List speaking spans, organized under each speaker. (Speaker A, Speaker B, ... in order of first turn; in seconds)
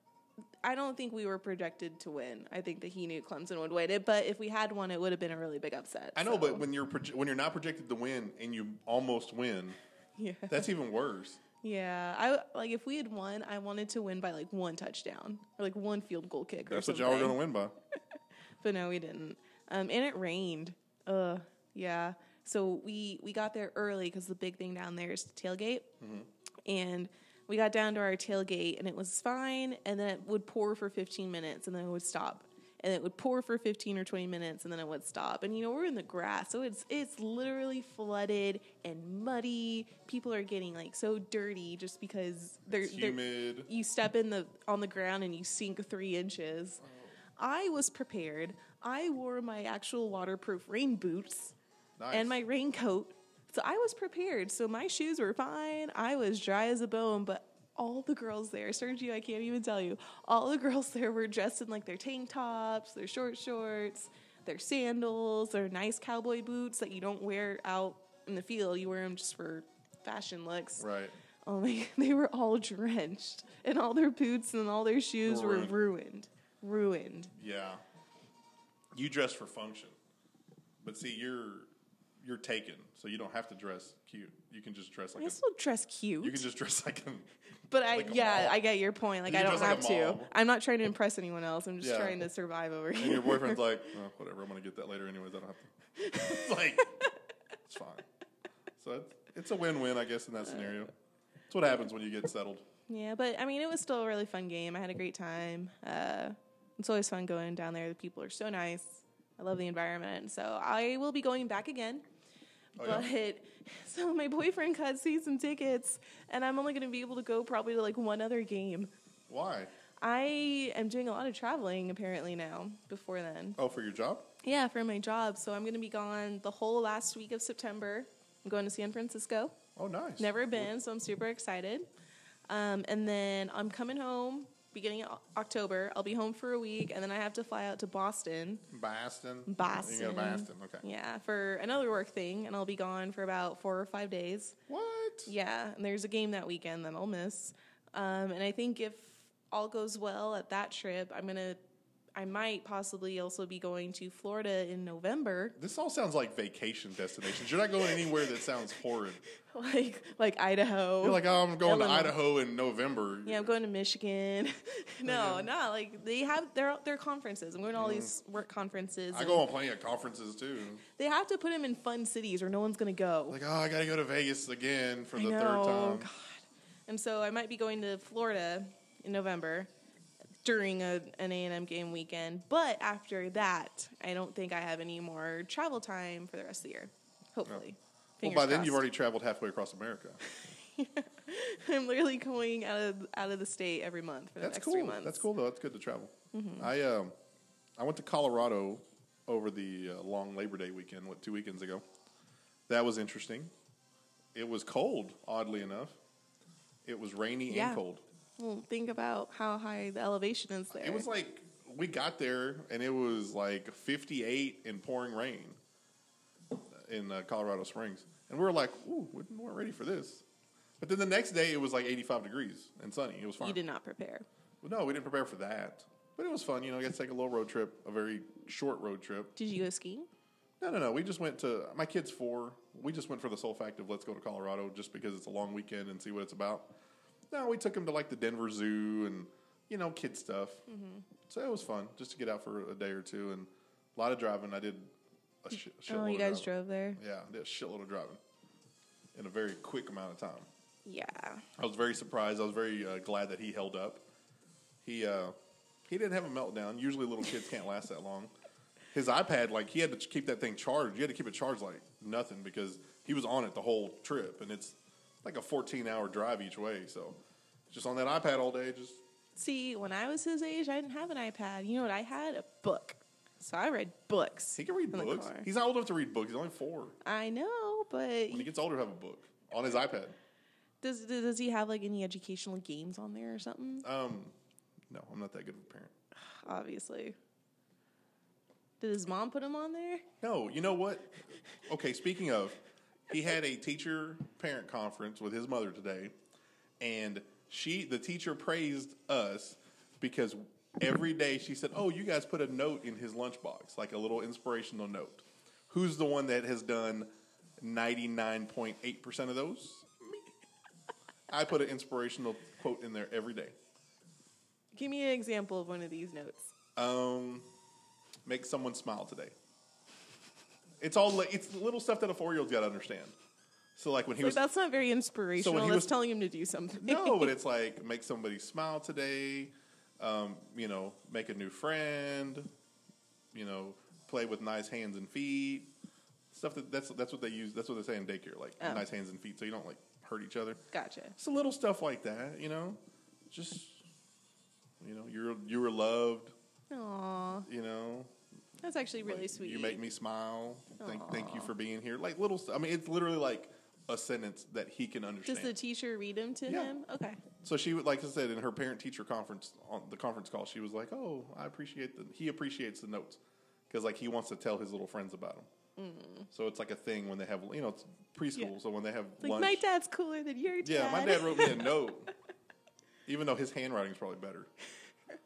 Speaker A: 0.6-6.7, 10.2-10.7, 11.6-17.4, 18.6-25.9, 26.6-46.8, 47.4-51.5, 52.1-70.8, 71.4-77.3, 85.2-86.4, 87.7-93.6, 96.0-96.5, 102.9-112.0, 112.8-118.9, 120.0-123.6, 124.4-129.6, 130.2-131.9, 132.5-138.7, 139.5-144.6, 145.2-151.6, 152.1-155.6, 157.9-158.3, 159.4-162.1, 163.2-169.5, 170.9-173.4, 175.1-179.7, 180.4-188.8, 190.3-195.2, 196.3-196.7, 207.5-207.8, 208.4-211.1, 223.4-224.2, 229.3-230.1, 240.7-241.0, 245.9-247.0, 250.8-251.4, 269.4-275.5, 277.0-278.5, 280.8-283.8, 286.3-287.1, 288.8-290.0, 314.7-316.5, 324.2-327.3, 340.7-341.1, 346.7-347.5, 348.6-349.8, 350.8-351.5, 355.3-357.2, 365.8-366.3, 369.2-371.8
Speaker B: 6.1-9.8, 10.5-11.4, 16.7-17.7, 26.0-26.3, 42.7-43.7, 46.8-47.1, 52.0-52.3, 70.8-71.1, 75.2-75.8, 77.3-77.8, 78.9-79.9, 80.8-81.7, 82.2-85.4, 86.2-87.3, 87.9-88.6, 89.2-90.3, 91.8-92.2, 92.9-97.1, 97.7-98.0, 98.8-100.9, 101.5-102.6, 112.8-113.1, 119.3-119.7, 123.6-124.3, 129.8-130.7, 138.7-140.8, 144.7-145.3, 155.6-159.2, 161.0-163.6, 165.0-165.5, 167.8-168.1, 169.1-170.8, 173.3-176.1, 188.2-190.2, 194.4-197.1, 197.8-201.8, 202.7-203.5, 204.3-206.0, 206.8-208.0, 210.7-215.6, 216.7-220.2, 220.8-223.6, 224.6-229.3, 230.6-236.7, 237.3-240.6, 241.2-244.9, 245.4-248.2, 249.1-250.5, 251.6-254.0, 254.8-255.3, 255.9-258.3, 258.9-267.2, 267.7-269.0, 274.6-276.9, 278.3-280.1, 283.8-284.3, 284.9-285.9, 290.2-292.6, 293.1-296.1, 296.8-310.1, 311.3-313.5, 316.8-317.5, 318.2-319.3, 320.8-323.1, 323.8-324.4, 325.4-325.9, 326.8-332.5, 333.3-335.7, 336.3-340.6, 341.2-343.8, 344.8-346.3, 347.4-348.1, 349.0-355.6, 356.5-356.7, 357.4-365.5, 366.3-369.6, 370.6-372.1, 373.1-374.5